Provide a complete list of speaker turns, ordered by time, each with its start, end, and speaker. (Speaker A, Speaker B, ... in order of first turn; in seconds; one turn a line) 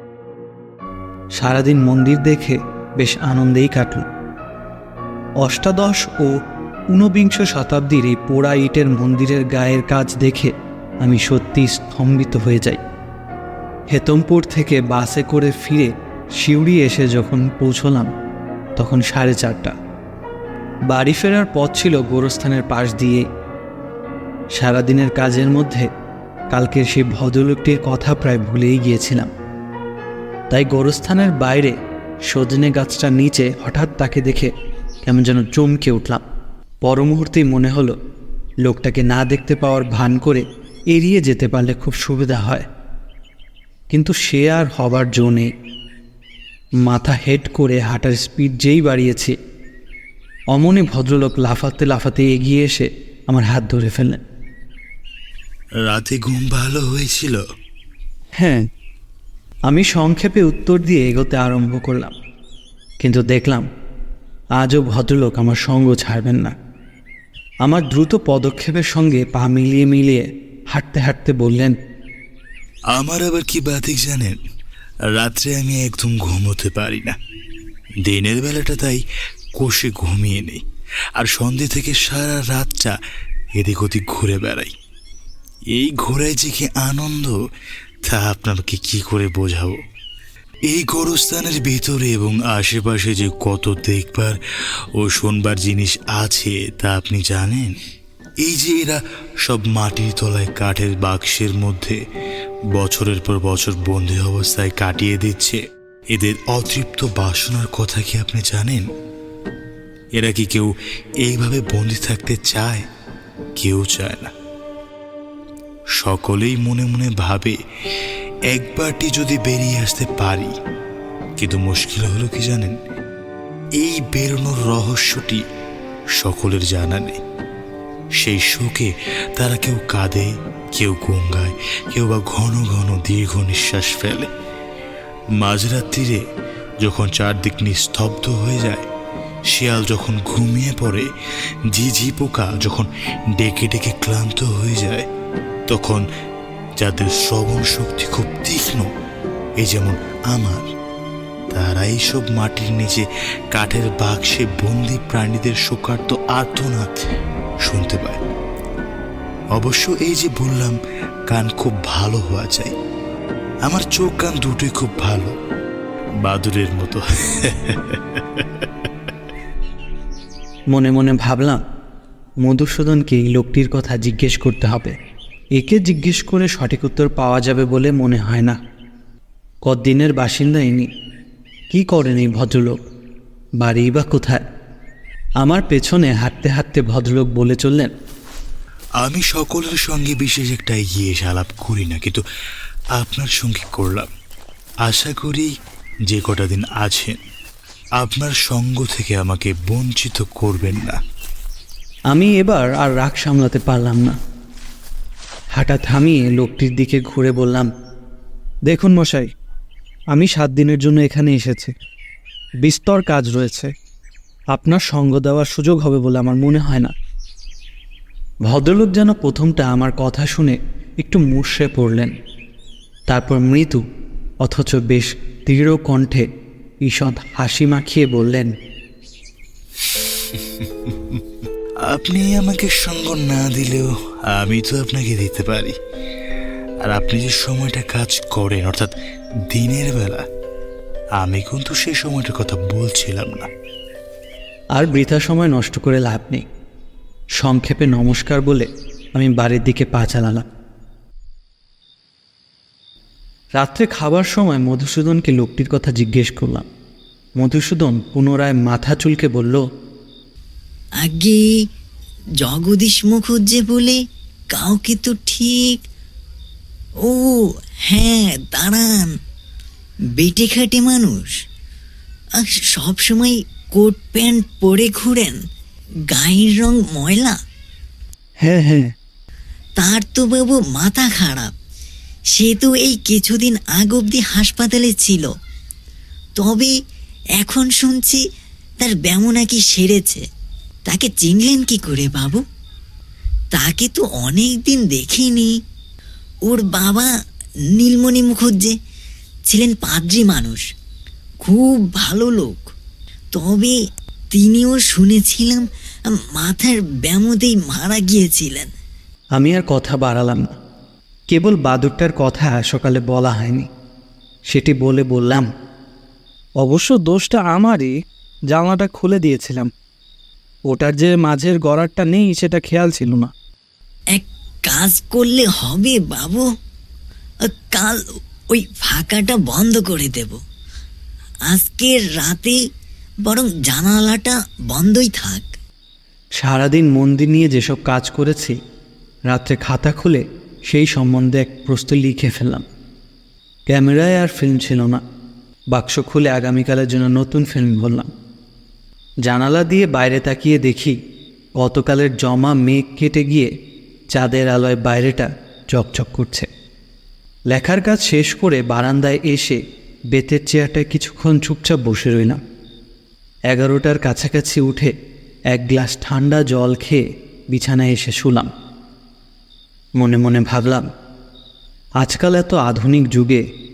Speaker A: 1.4-4.0
Speaker A: 5.4-6.4
Speaker A: 6.9-12.8
Speaker A: 13.9-18.1
Speaker A: 18.8-19.8
Speaker A: 20.9-23.2
Speaker A: 24.5-25.9
Speaker A: 26.5-29.3
Speaker A: 30.5-34.5
Speaker A: 35.0-36.2
Speaker A: 36.8-38.0
Speaker A: 38.6-42.6
Speaker A: 43.9-45.5
Speaker A: 46.8-49.4
Speaker A: 50.5-54.2
Speaker B: 55.8-57.4
Speaker A: 58.4-58.7
Speaker A: 59.7-62.1
Speaker A: 63.0-63.7
Speaker A: 64.6-66.5
Speaker A: 67.6-71.8
Speaker B: 72.9-74.4
Speaker B: 75.1-77.2
Speaker B: 78.0-79.0
Speaker B: 79.5-80.6
Speaker B: 81.2-83.0
Speaker B: 83.5-84.7
Speaker B: 85.7-87.4
Speaker B: 88.0-89.8
Speaker B: 90.7-94.4
Speaker B: 94.9-97.8
Speaker B: 98.4-102.0
Speaker B: 102.7-108.9
Speaker B: 110.2-112.8
Speaker B: 113.6-114.3
Speaker B: 116.0-120.5
Speaker B: 121.4-122.8
Speaker B: 123.8-125.4
Speaker B: 126.2-127.2
Speaker B: 128.2-134.3
Speaker B: 135.4-136.2
Speaker B: 136.8-138.9
Speaker B: 139.5-141.1
Speaker B: 141.7-145.1
Speaker B: 145.7-146.1
Speaker B: 146.8-148.9
Speaker B: 149.6-150.7
Speaker B: 151.5-157.1
Speaker B: 157.6-158.2
Speaker B: 159.5-162.7
Speaker B: 163.6-165.3
Speaker B: 166.2-168.7
Speaker A: 170.7-171.6
Speaker A: 172.4-174.9
Speaker A: 175.6-178.6
Speaker A: 179.7-180.9
Speaker A: 181.7-182.8
Speaker A: 183.6-184.4
Speaker A: 185.4-187.9
Speaker B: 189.0-192.2
Speaker B: 192.9-194.1
Speaker B: 194.8-195.5
Speaker B: 196.1-197.2
Speaker B: 198.0-201.0
Speaker A: 202.1-204.2
Speaker A: 205.6-207.7
Speaker A: 208.7-209.3
Speaker A: 210.1-211.7
Speaker A: 212.6-213.7
Speaker A: 214.5-216.9
Speaker A: 218.5-222.1
Speaker A: 223.1-223.8
Speaker A: 224.4-226.3
Speaker A: 226.8-228.5
Speaker B: 229.9-231.2
Speaker B: 231.8-235.8
Speaker B: 236.8-238.9
Speaker B: 239.5-240.2
Speaker B: 241.2-243.5
Speaker A: 244.8-246.4
Speaker A: 247.4-250.5
Speaker A: 253.6-256.7
Speaker A: 257.4-259.6
Speaker C: 261.0-261.6
Speaker C: 262.4-264.0
Speaker C: 264.5-265.8
Speaker C: 267.0-269.1
Speaker C: 270.1-271.4
Speaker C: 272.4-275.4
Speaker C: 276.1-277.4
Speaker A: 278.4-278.9
Speaker C: 279.8-281.5
Speaker C: 282.4-285.3
Speaker C: 286.4-286.7
Speaker C: 287.4-288.2
Speaker C: 288.8-290.2
Speaker C: 290.9-292.4
Speaker C: 293.5-295.5
Speaker C: 296.4-297.1
Speaker C: 297.7-298.7
Speaker C: 299.5-300.6
Speaker C: 301.4-302.7
Speaker C: 303.3-303.8
Speaker C: 304.3-308.7
Speaker A: 309.4-310.5
Speaker A: 311.3-313.7
Speaker A: 314.5-315.5
Speaker A: 316.6-317.9
Speaker A: 318.5-319.7
Speaker A: 320.7-323.3
Speaker C: 324.1-326.5
Speaker C: 327.4-330.4
Speaker C: 331.5-332.6
Speaker C: 333.2-335.5
Speaker A: 336.4-338.6
Speaker A: 339.3-342.6
Speaker A: 343.7-345.0
Speaker A: 345.7-348.1
Speaker A: 349.2-351.0
Speaker A: 351.6-353.5
Speaker A: 354.1-356.5
Speaker A: 357.5-362.4
Speaker A: 363.5-364.9
Speaker A: 365.5-368.5
Speaker A: 370.0-370.9
Speaker A: 372.0-373.4